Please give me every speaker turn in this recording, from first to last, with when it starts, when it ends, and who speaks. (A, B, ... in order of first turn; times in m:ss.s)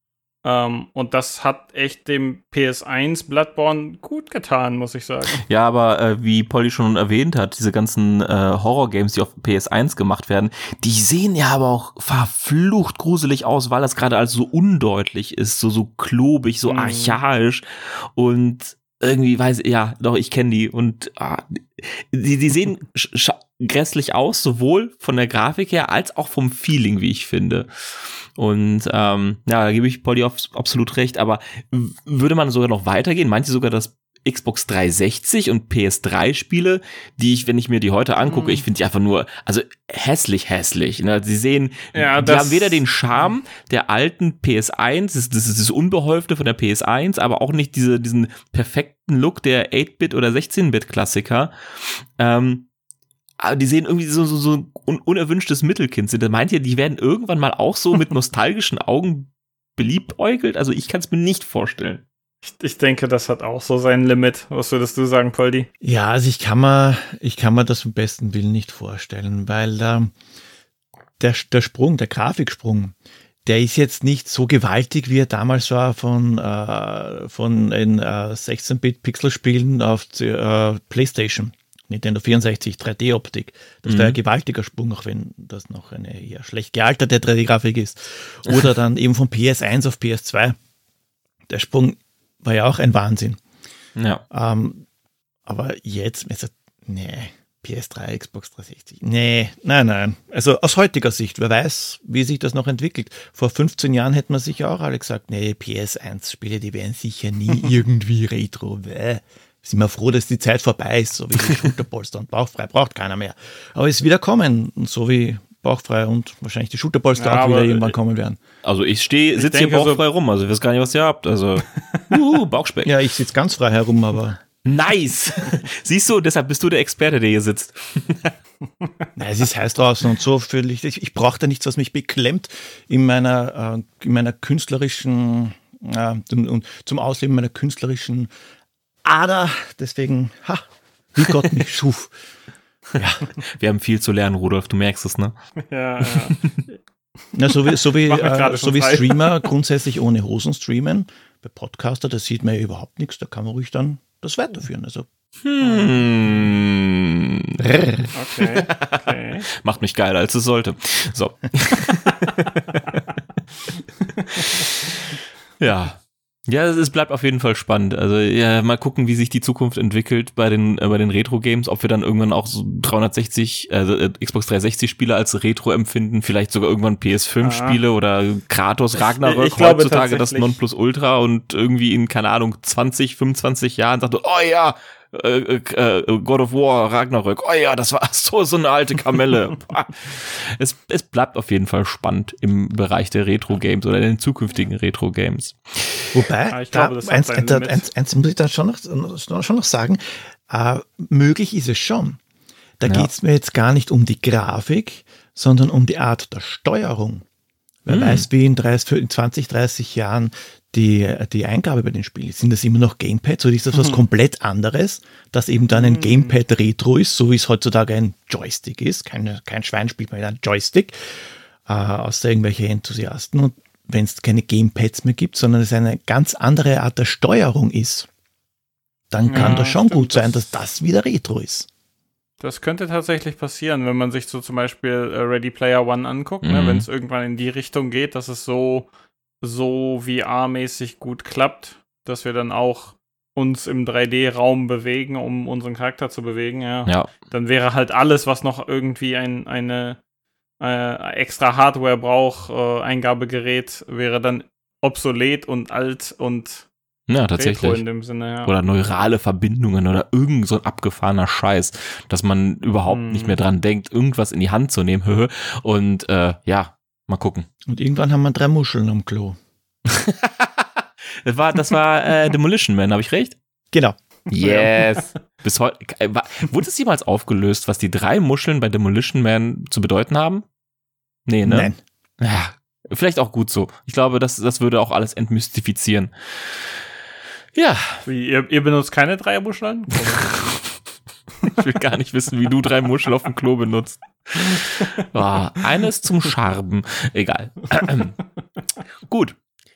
0:00.4-0:05.4 A
0:05.4-0:27.7 B
0:16.7-0:17.2 A
0:28.4-0:51.5 B
0:38.2-0:38.6 A
0:41.9-0:42.8 A
0:52.2-0:52.7 B
0:53.4-1:02.0 B
1:02.4-1:05.7 A
1:05.8-1:10.1 C
1:11.2-1:12.9 C
1:13.4-1:30.6 C
1:23.8-1:24.2 B
1:31.5-1:33.4 C
1:34.0-1:34.2 B
1:34.3-1:34.8 C
1:35.4-1:58.4 C
1:57.2-1:57.9 A
1:58.6-2:02.9 B
1:59.4-2:00.0 A
2:02.8-2:04.4 C
2:04.6-2:08.3 B
2:09.2-2:18.3 C
2:19.0-2:22.1 C
2:23.0-2:23.3 C
2:23.4-2:25.4 B
2:25.6-2:26.4 A
2:26.0-2:26.5 B
2:27.3-2:35.1 C
2:27.6-2:29.4 A
2:35.4-2:43.2 B
2:37.6-2:38.1 C
2:38.1-2:39.5 A
2:44.3-2:45.0 B
2:45.6-3:16.1 B
2:57.4-2:57.8 A
2:59.0-3:00.6 A
3:16.1-3:22.2 C
3:16.5-3:17.8 A
3:22.8-3:27.2 C
3:27.8-3:48.1 C
3:27.9-3:28.2 B
3:35.7-3:36.4 A
3:49.1-3:51.7 C
3:49.3-3:50.5 A
3:52.4-3:58.9 A
3:56.4-3:56.8 B
3:59.4-4:10.0 A
4:10.6-4:16.7 A
4:17.1-4:17.8 B
4:17.4-4:18.5 A
4:18.4-4:27.5 B
4:22.9-4:23.4 A
4:27.7-4:29.4 C
4:29.9-4:30.7 B
4:31.2-4:33.4 B
4:33.7-4:34.0 C
4:34.3-4:40.4 B
4:34.4-4:34.7 A
4:41.3-4:46.7 B
4:41.4-4:41.8 C
4:47.5-4:48.0 B
4:48.0-4:50.4 A
4:50.2-4:50.8 B
4:51.5-4:58.2 B
4:59.1-4:59.4 B